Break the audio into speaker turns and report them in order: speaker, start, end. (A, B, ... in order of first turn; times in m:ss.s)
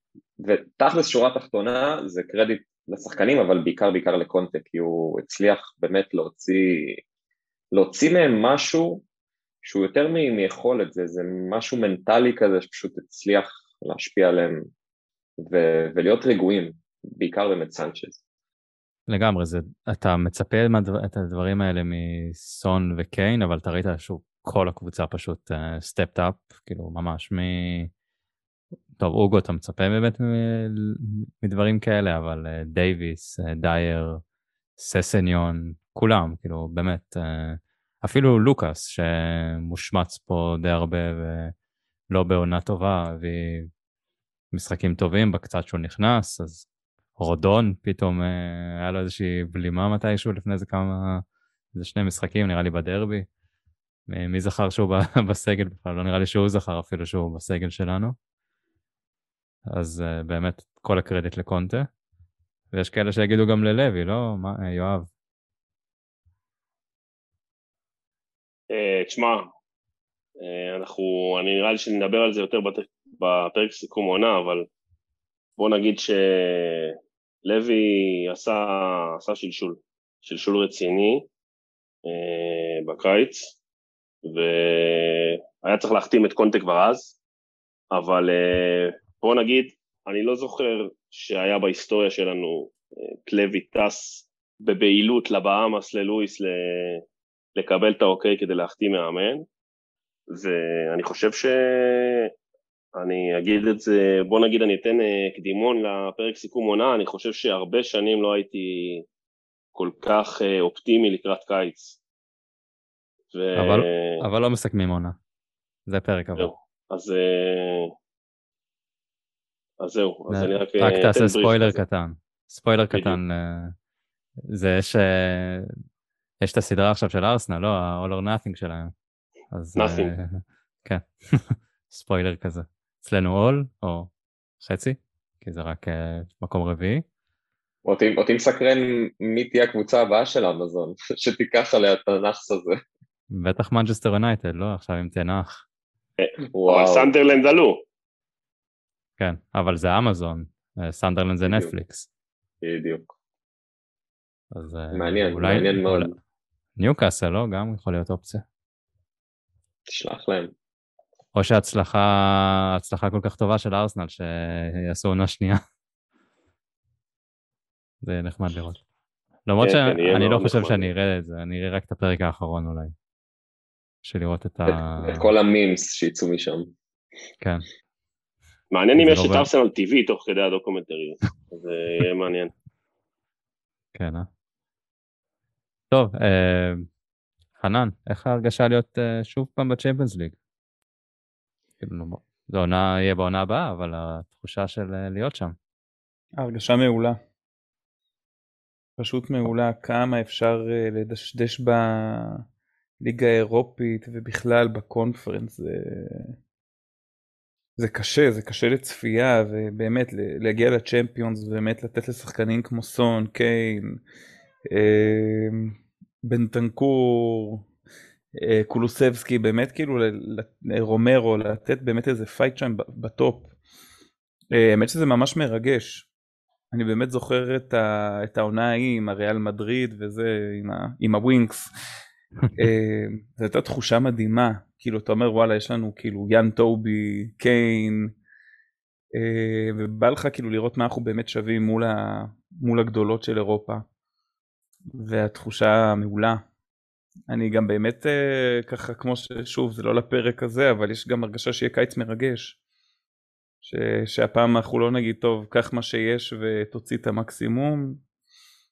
0:00.4-0:07.0 A
0:07.7-0:09.0 A
0:09.6-0:14.7 A
0:15.4-0:18.2 A
0:19.1-0:27.9 B
0:29.0-0:34.2 B
0:34.8-0:41.5 B
0:42.1-0:43.7 B
0:44.5-0:51.2 B
0:51.7-0:53.2 B
0:54.1-0:58.1 B
0:59.7-1:01.9 B
1:02.7-1:05.1 B
1:08.7-1:09.5 C
1:10.4-1:14.7 C
1:15.6-1:21.3 C
1:22.0-1:23.5 C
1:24.2-1:27.2 C
1:27.9-1:37.0 C
1:37.6-1:39.4 C
1:40.3-1:42.3 C
1:42.9-1:49.0 C
1:49.7-1:52.0 C
1:53.3-1:54.2 C
1:53.6-1:55.2 B
1:55.9-1:56.5 B
1:56.4-1:57.9 C
1:59.8-2:01.8 C
2:00.3-2:03.7 B
2:02.9-2:03.2 C
2:04.5-2:05.7 B
2:06.4-2:08.9 B
2:09.5-2:14.1 B
2:09.8-2:10.1 C
2:14.6-2:17.0 B
2:17.8-2:22.8 A
2:23.3-2:25.6 B
2:26.2-2:27.8 C
2:26.5-2:27.1 A
2:29.2-2:32.1 B
2:31.4-2:31.7 A
2:32.6-2:33.1 A
2:34.5-2:36.1 B
2:34.9-2:36.1 A
2:36.8-2:38.4 B
2:39.9-2:40.5 A
2:41.3-2:45.6 B
2:48.0-2:48.8 B
2:49.5-2:52.9 B
2:49.6-2:50.9 C
2:54.0-2:55.3 B
2:54.7-2:56.7 A
2:57.4-2:57.6 B
2:58.7-3:02.5 C
2:59.0-2:59.5 B
3:03.9-3:04.3 B
3:05.9-3:06.9 B
3:07.6-3:10.4 B
3:11.8-3:15.5 B
3:16.4-3:17.2 D
3:19.0-3:22.4 D
3:23.0-3:26.3 D
3:27.8-3:34.0 D
3:34.7-3:37.6 D
3:38.4-3:43.5 D
3:44.5-3:46.1 D
3:46.7-3:51.7 D
3:52.6-3:58.1 D
3:59.2-4:03.8 D
4:05.0-4:06.4 D
4:07.3-4:12.6 D
4:13.6-4:18.0 D